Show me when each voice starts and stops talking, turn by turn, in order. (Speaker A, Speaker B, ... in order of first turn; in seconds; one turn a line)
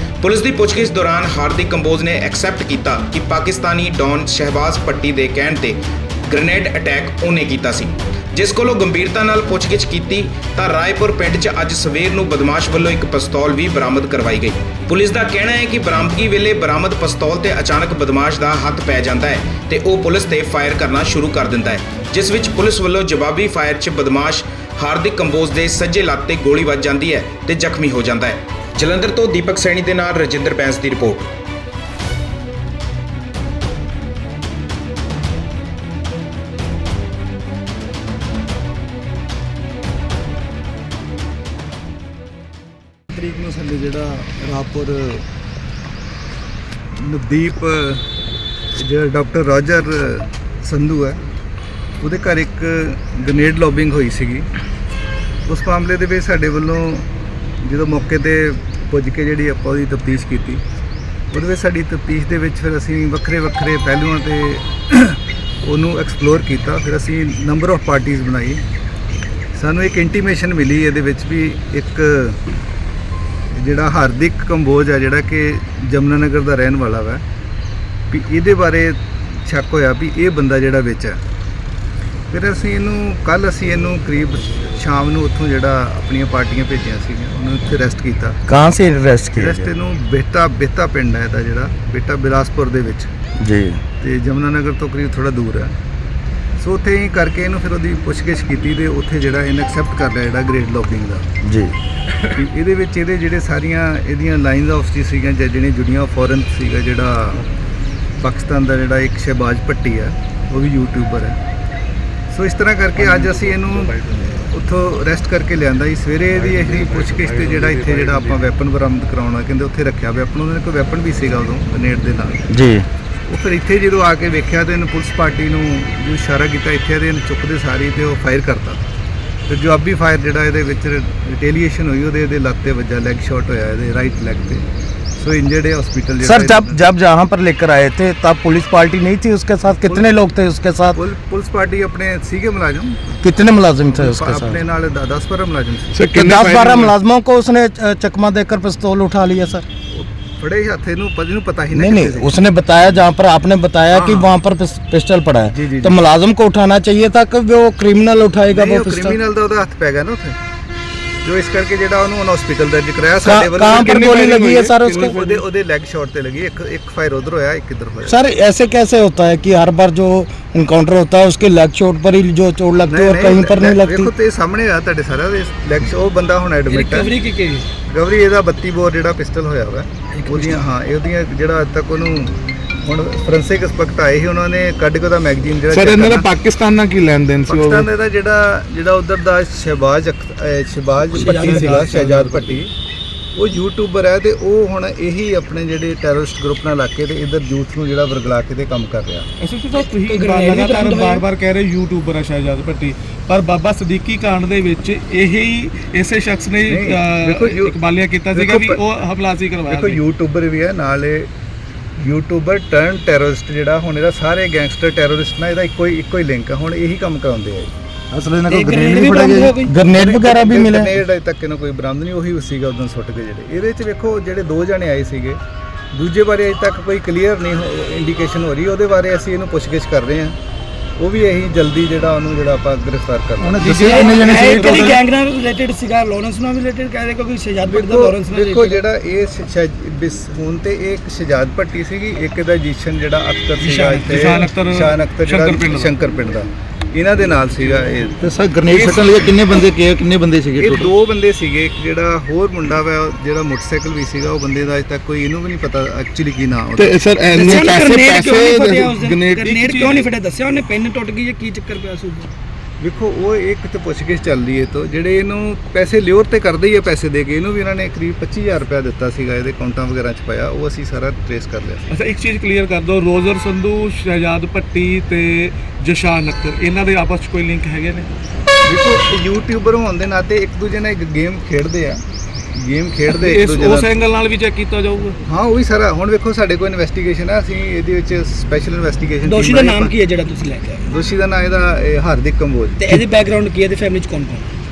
Speaker A: 0.2-31.3
Speaker B: 43.1-45.2
Speaker B: 47.0-48.0
Speaker B: 48.8-51.2
Speaker B: 52.0-54.5
Speaker B: 55.5-57.1
Speaker B: 57.6-60.6
Speaker B: 61.3-68.6
Speaker B: 69.5-72.4
Speaker B: 73.5-77.2
Speaker B: 78.1-81.2
Speaker B: 82.3-88.4
Speaker C: 88.5-89.7
Speaker B: 89.4-93.1
Speaker C: 93.4-93.8
Speaker B: 94.0-95.8
Speaker B: 96.6-101.3
Speaker C: 101.4-101.8
Speaker B: 102.4-107.5
Speaker B: 108.2-111.4
Speaker B: 112.3-122.4
Speaker D: 113.0-114.4
Speaker D: 116.3-118.5
Speaker C: 122.5-122.9
Speaker B: 123.3-128.8
Speaker B: 129.5-134.7
Speaker B: 135.2-136.8
Speaker C: 136.2-141.0
Speaker B: 140.9-143.0
Speaker C: 143.2-144.6
Speaker B: 143.9-146.1
Speaker E: 145.9-146.9
Speaker C: 146.1-149.6
Speaker B: 149.9-152.4
Speaker C: 151.7-159.2
Speaker B: 153.9-154.3
Speaker B: 155.5-156.0
Speaker B: 158.5-160.4
Speaker B: 161.2-164.2
Speaker C: 163.2-165.2
Speaker E: 163.9-165.3
Speaker B: 164.9-168.2
Speaker C: 168.1-174.1
Speaker B: 172.9-177.1
Speaker F: 176.7-177.7
Speaker B: 177.9-186.3
Speaker F: 180.1-180.7
Speaker E: 185.7-187.9
Speaker B: 187.5-192.7
Speaker D: 191.1-192.6
Speaker F: 191.2-191.8
Speaker B: 193.3-199.3
Speaker D: 199.4-210.0
Speaker F: 199.8-201.2
Speaker B: 206.7-207.8
Speaker B: 208.3-208.8
Speaker B: 209.7-211.3
Speaker B: 212.0-217.7
Speaker C: 218.1-221.0
Speaker F: 218.5-219.7
Speaker B: 219.9-225.4
Speaker B: 225.9-230.4
Speaker B: 231.0-233.8
Speaker C: 233.4-234.8
Speaker D: 233.6-235.0
Speaker F: 233.8-238.8
Speaker B: 237.7-248.2
Speaker F: 243.6-244.5
Speaker D: 244.1-246.0
Speaker C: 248.2-250.9
Speaker B: 250.6-257.1
Speaker E: 256.8-259.4
Speaker F: 257.3-262.3
Speaker D: 259.3-260.1
Speaker B: 262.8-271.9
Speaker D: 271.9-278.1
Speaker B: 278.6-282.0
Speaker B: 282.6-283.9
Speaker D: 283.1-285.2
Speaker B: 285.3-289.9
Speaker F: 289.2-290.9
Speaker B: 290.9-292.8
Speaker F: 292.8-294.5